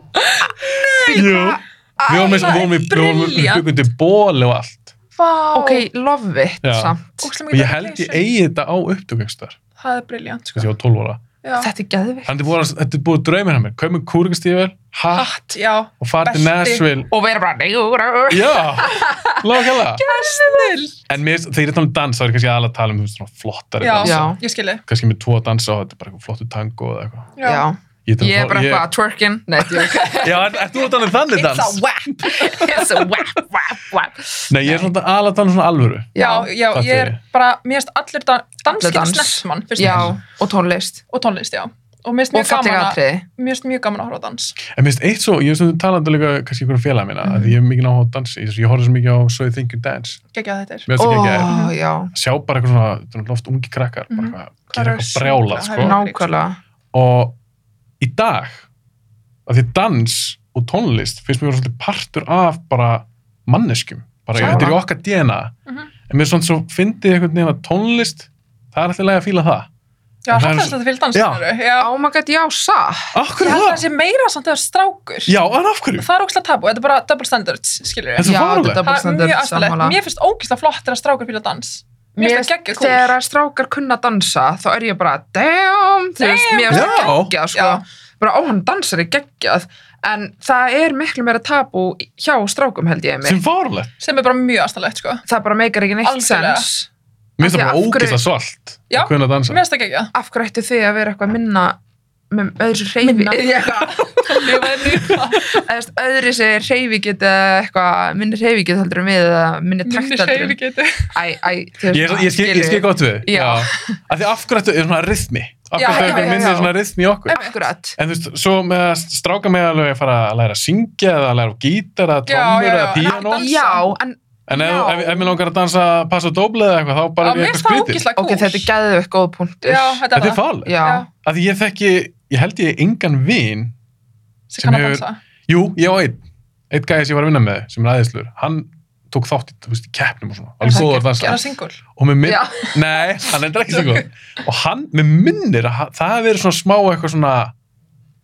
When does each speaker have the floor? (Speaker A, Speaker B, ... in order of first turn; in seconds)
Speaker A: 0.1-1.4, 2.1-3.6, 5.2-5.9, 7.2-8.2, 9.8-10.7, 11.4-11.7, 15.1-16.9, 20.0-21.0, 23.8-24.8, 27.4-27.7, 29.9-30.3, 31.3-32.9, 36.1-40.2, 41.1-44.5, 50.3-50.9, 51.4-51.7, 54.1-56.3, 64.4-64.7, 70.2-71.9, 73.4-75.3, 76.0-83.1, 86.2-87.8, 94.0-95.2, 96.0-96.7, 98.9-100.1, 103.0-105.6, 109.8-111.1, 115.8-116.6, 117.3-117.6, 122.2-123.9, 127.2-128.7, 129.6-131.1, 134.5-135.2, 140.6-141.8
Speaker B: 1.1-2.7, 5.5-7.3, 11.6-12.4, 17.1-20.8, 24.0-24.4, 27.4-30.6, 32.2-34.9, 36.1-36.5, 38.7-41.0, 42.3-43.2, 47.2-47.5, 51.0-52.1, 55.8-56.6, 64.3-64.8, 71.8-73.1, 78.2-80.0, 82.2-93.4, 95.3-96.9, 97.4-98.2, 100.1-101.8, 102.3-110.6, 111.1-114.0, 115.8-116.7, 117.3-118.0, 123.2-125.4, 128.2-130.1, 130.6-131.0, 140.7-141.4, 142.2-143.2
Speaker C: 1.1-4.9, 6.6-6.9, 7.5-9.6, 10.5-11.2, 12.2-17.1, 18.3-20.0, 21.1-27.3, 28.1-28.9, 30.2-32.5, 34.5-36.1, 36.7-37.2, 39.8-40.1, 44.7-50.2, 50.9-51.5, 52.1-56.0, 56.9-57.4, 58.0-58.6, 59.5-65.5, 66.1-69.7, 70.3-71.4, 73.1-73.8, 75.3-76.1, 78.2-78.8, 86.7-87.3, 93.2-93.9, 97.4-99.6, 111.9-117.4, 118.0-123.5, 124.5-128.0, 130.1-133.7, 134.6-141.4, 141.9-147.5